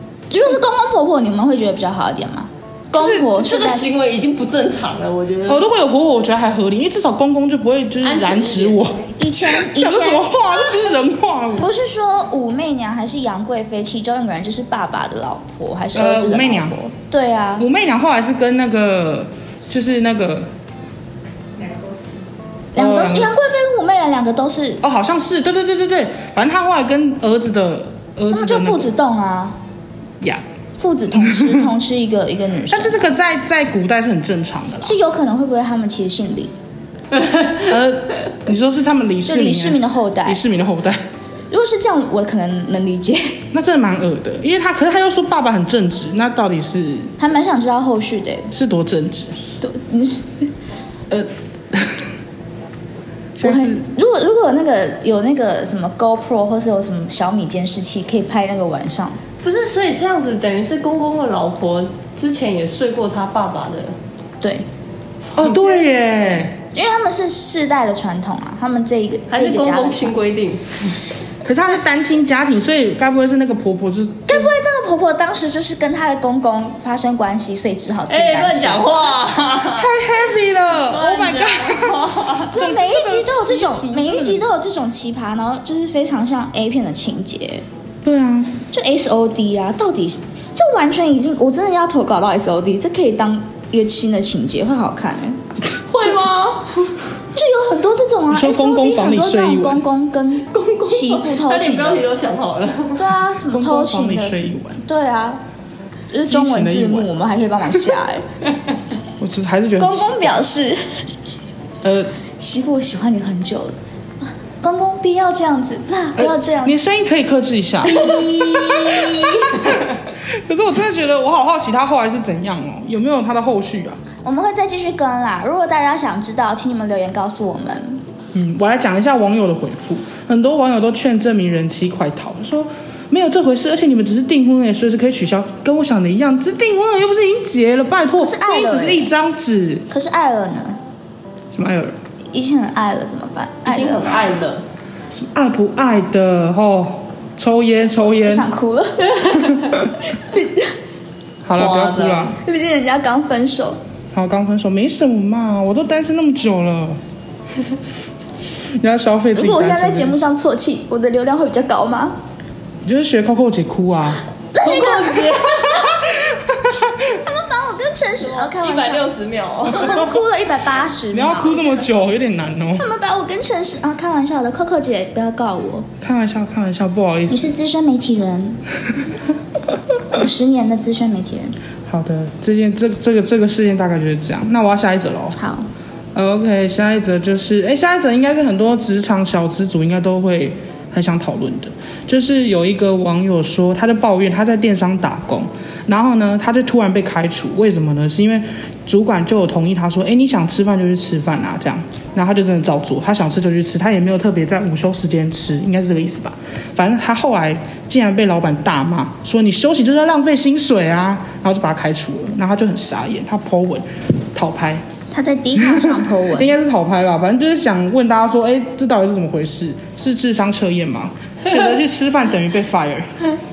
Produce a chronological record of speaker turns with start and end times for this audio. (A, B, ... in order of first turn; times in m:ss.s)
0:00.3-0:03.9 A
0:03.0-0:03.3 B
0:03.3-0:05.7 C
0:05.5-0:11.7 B
0:08.0-0:09.0 C
0:09.2-0:10.3 A
0:11.6-0:17.6 A
0:15.9-0:16.8 B
0:17.6-0:20.5 B
0:22.7-0:24.8 A
0:22.8-0:23.3 B
0:24.8-0:28.9 B
0:28.3-0:29.6 A
0:30.8-0:33.0 A
0:31.1-0:31.7 B
0:32.7-0:35.0 B
0:34.8-0:36.5 A
0:37.6-0:41.0 B
0:39.2-0:40.4 A
0:41.5-0:43.4 A
0:43.5-0:47.1 B
0:47.2-0:48.5 A
0:48.5-0:49.5 B
0:49.6-0:50.5 A
0:51.1-0:52.1 B
0:53.3-0:53.9 B
0:53.4-0:59.2 A
0:59.4-1:04.0 C
1:05.3-1:06.5 B
1:06.5-1:10.1 A
1:09.3-1:10.9 C
1:11.4-1:14.5 B
1:14.3-1:19.0 A
1:18.1-1:20.0 C
1:19.7-1:24.4 B
1:20.6-1:22.5 C
1:22.5-1:27.6 A
1:28.0-1:28.5 B
1:28.7-1:35.4 A
1:35.9-1:36.9 C
1:37.3-1:42.1 A
1:38.3-1:39.8 B
1:40.5-1:43.0 C
1:43.0-1:45.4 A
1:43.5-1:44.8 B
1:46.1-1:48.2 A
1:46.3-1:47.1 B
1:49.2-1:50.4 B
1:49.8-1:51.0 A
1:51.8-1:52.1 B
1:52.4-1:53.7 A
1:54.6-1:56.8 A
1:56.2-2:04.0 B
1:57.9-1:59.9 C
1:58.1-1:58.7 A
2:04.2-2:08.0 A
2:08.3-2:19.8 B
2:18.2-2:19.1 A
2:19.9-2:20.8 A
2:21.5-2:21.9 B
2:22.3-2:24.1 A
2:23.6-2:24.6 C
2:25.1-2:28.5 B
2:28.2-2:30.7 A
2:31.4-2:32.4 B
2:31.5-2:32.3 C
2:32.4-2:33.8 A
2:34.1-2:37.0 B
2:38.8-2:40.3 B
2:39.3-2:42.2 A
2:42.8-2:44.2 B
2:44.5-2:46.1 A
2:44.6-2:45.8 C
2:46.3-2:46.9 B
2:46.9-2:49.1 A
2:48.2-2:50.1 C
2:49.7-2:51.8 A
2:51.1-2:52.9 B
2:52.8-2:55.9 A
2:56.0-2:57.5 B
2:57.3-2:58.6 A
3:00.1-3:01.5 A
3:01.9-3:05.4 B
3:05.4-3:05.7 A
3:06.1-3:34.8 B
3:35.1-3:36.5 A
3:35.6-3:43.2 B